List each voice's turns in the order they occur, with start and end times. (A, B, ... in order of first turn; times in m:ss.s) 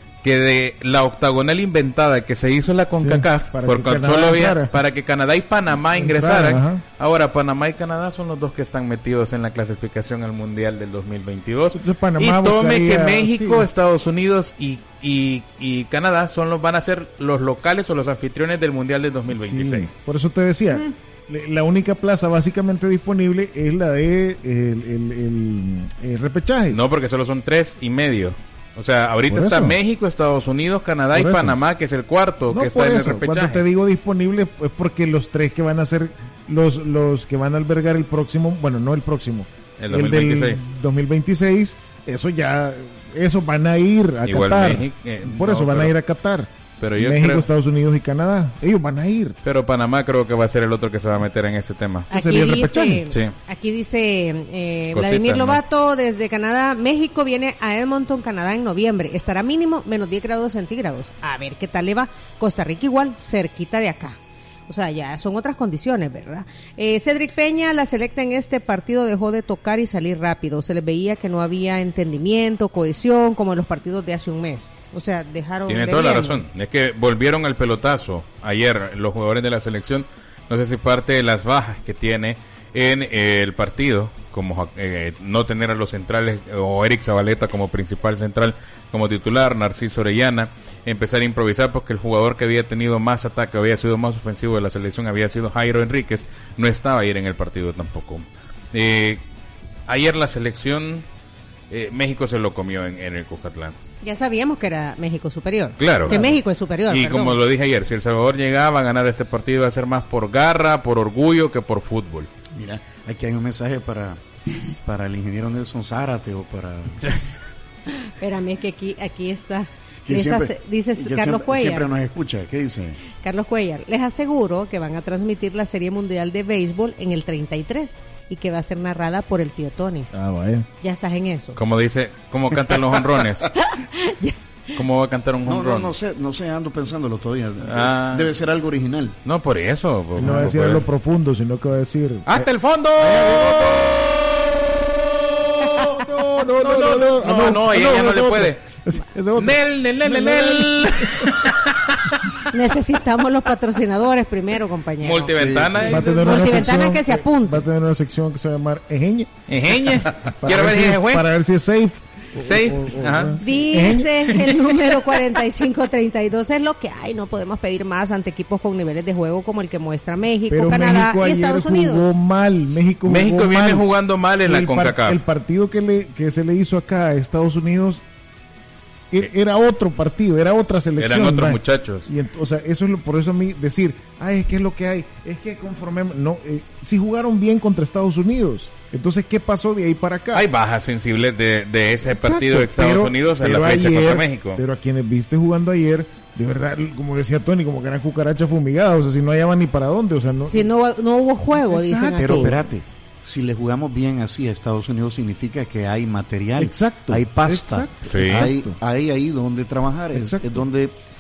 0:00.2-0:19.9 A
0:03.0-0:04.7 B
0:05.9-0:06.8 B
0:11.7-0:13.7 B
0:19.3-0:26.8 B
0:26.7-0:33.6 A
0:29.3-0:29.8 B
0:31.1-0:31.6 B
0:32.5-0:49.4 B
0:39.8-0:40.6 A
0:44.3-0:46.0 A
0:46.8-0:47.5 A
0:49.4-0:52.5 A
0:52.1-0:53.1 B
0:52.1-1:16.4 C
0:54.9-0:55.6 A
1:15.7-1:39.2 A
1:39.9-1:41.0 A
1:41.7-1:43.8 A
1:44.0-1:47.4 C
1:45.8-1:46.3 A
1:46.9-1:52.3 A
1:52.5-1:54.2 D
1:54.8-1:57.1 D
1:57.9-2:01.9 C
2:00.1-2:03.0 D
2:03.2-2:10.2 C
2:10.1-2:10.7 B
2:10.8-2:11.6 C
2:11.6-2:13.5 A
2:13.6-2:14.4 C
2:14.8-2:16.0 A
2:15.4-2:19.2 D
2:17.6-2:18.3 A
2:19.2-2:20.8 A
2:20.2-2:22.5 B
2:22.3-2:24.0 A
2:25.2-2:26.0 A
2:25.9-2:31.3 B
2:26.6-2:28.6 A
2:29.3-2:32.3 A
2:32.5-2:35.3 C
2:35.0-2:36.6 A
2:35.3-2:36.2 D
2:35.7-2:44.2 B
2:36.1-2:37.6 C
2:39.5-2:41.3 A
2:42.4-2:43.4 A
2:43.4-2:52.0 C
2:44.3-2:44.7 A
2:50.5-2:53.9 B
2:53.1-2:55.2 A
2:54.4-2:58.0 B
2:59.1-3:10.5 B
3:01.0-3:02.1 A
3:10.3-3:14.6 A
3:12.1-3:20.7 B
3:20.5-3:22.6 C
3:21.6-3:22.6 B
3:22.2-3:31.0 D
3:26.6-3:28.8 B
3:28.1-3:28.5 A
3:30.1-3:30.6 B